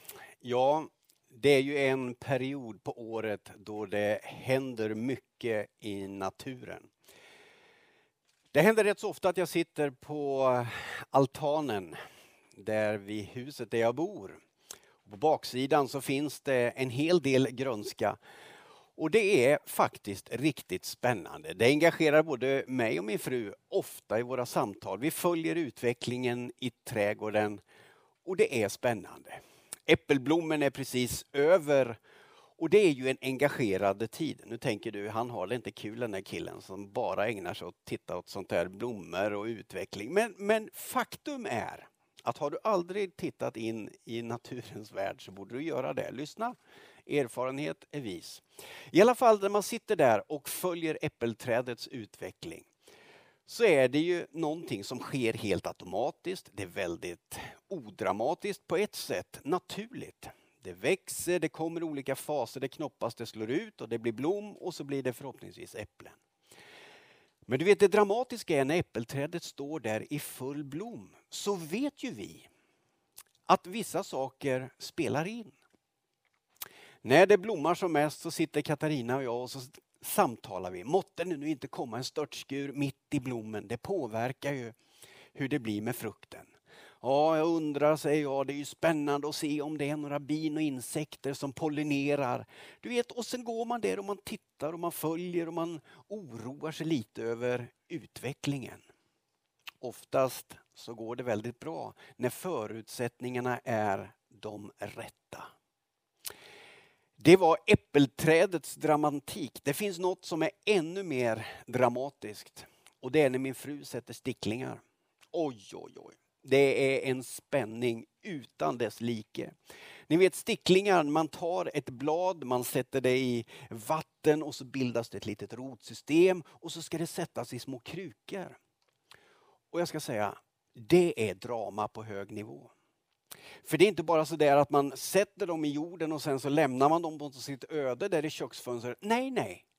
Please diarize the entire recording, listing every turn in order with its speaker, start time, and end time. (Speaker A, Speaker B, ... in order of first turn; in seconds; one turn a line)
Speaker A: 0.4-6.9
Speaker A: 8.5-12.0
Speaker A: 12.6-14.4
Speaker A: 15.1-18.2
Speaker A: 19.0-27.6
Speaker A: 28.2-32.0
Speaker A: 32.6-52.7
Speaker A: 53.5-66.2
Speaker A: 67.5-72.5
Speaker A: 73.5-75.6
Speaker A: 77.0-84.8
Speaker A: 85.3-98.8
Speaker A: 99.8-105.5
Speaker A: 107.2-114.8
Speaker A: 115.3-119.5
Speaker A: 120.1-128.6
Speaker A: 129.7-132.7
Speaker A: 133.6-139.7